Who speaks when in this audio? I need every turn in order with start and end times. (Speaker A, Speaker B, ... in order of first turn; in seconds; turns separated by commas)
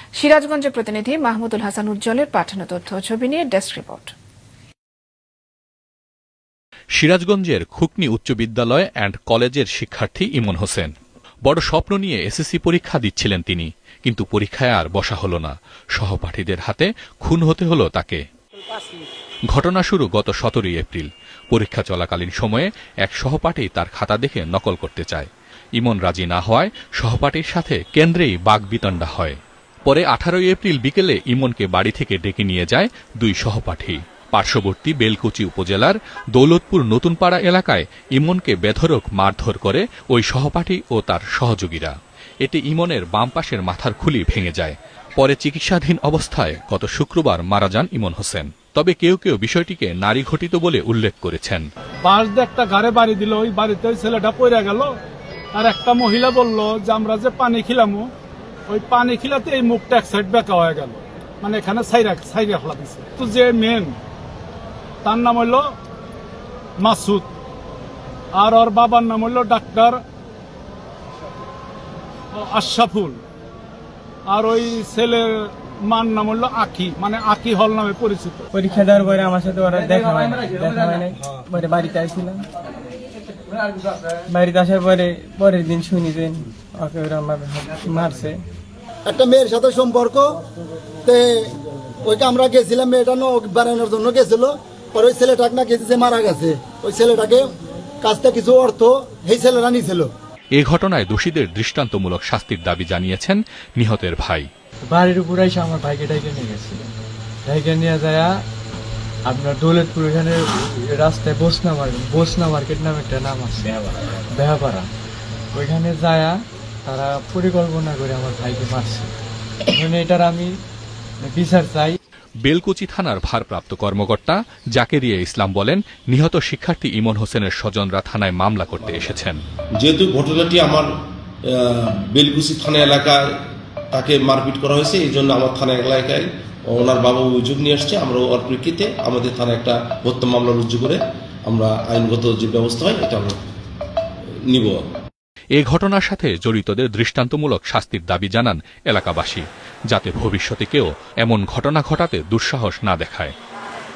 Speaker A: 0.1-4.1, Speaker B: 7.0-10.9, Speaker B: 11.4-18.2, Speaker B: 19.5-51.6, Speaker C: 52.0-54.9, Speaker C: 55.5-58.1, Speaker C: 58.7-64.0, Speaker C: 65.0-65.7, Speaker C: 66.8-67.3, Speaker C: 68.3-70.0, Speaker C: 72.3-73.2, Speaker C: 74.3-78.5, Speaker D: 78.5-82.5, Speaker D: 84.3-88.4, Speaker E: 89.0-90.4, Speaker E: 91.0-91.5, Speaker E: 92.0-97.5, Speaker E: 98.0-100.1, Speaker B: 100.5-104.5, Speaker D: 104.9-106.8, Speaker D: 107.5-108.4, Speaker D: 109.2-114.9, Speaker D: 115.5-119.1, Speaker D: 119.7-120.5, Speaker D: 121.2-122.0, Speaker B: 122.4-129.4, Speaker F: 129.8-130.9, Speaker F: 131.5-133.2, Speaker F: 133.9-143.4, Speaker F: 144.5-144.8, Speaker B: 145.6-153.3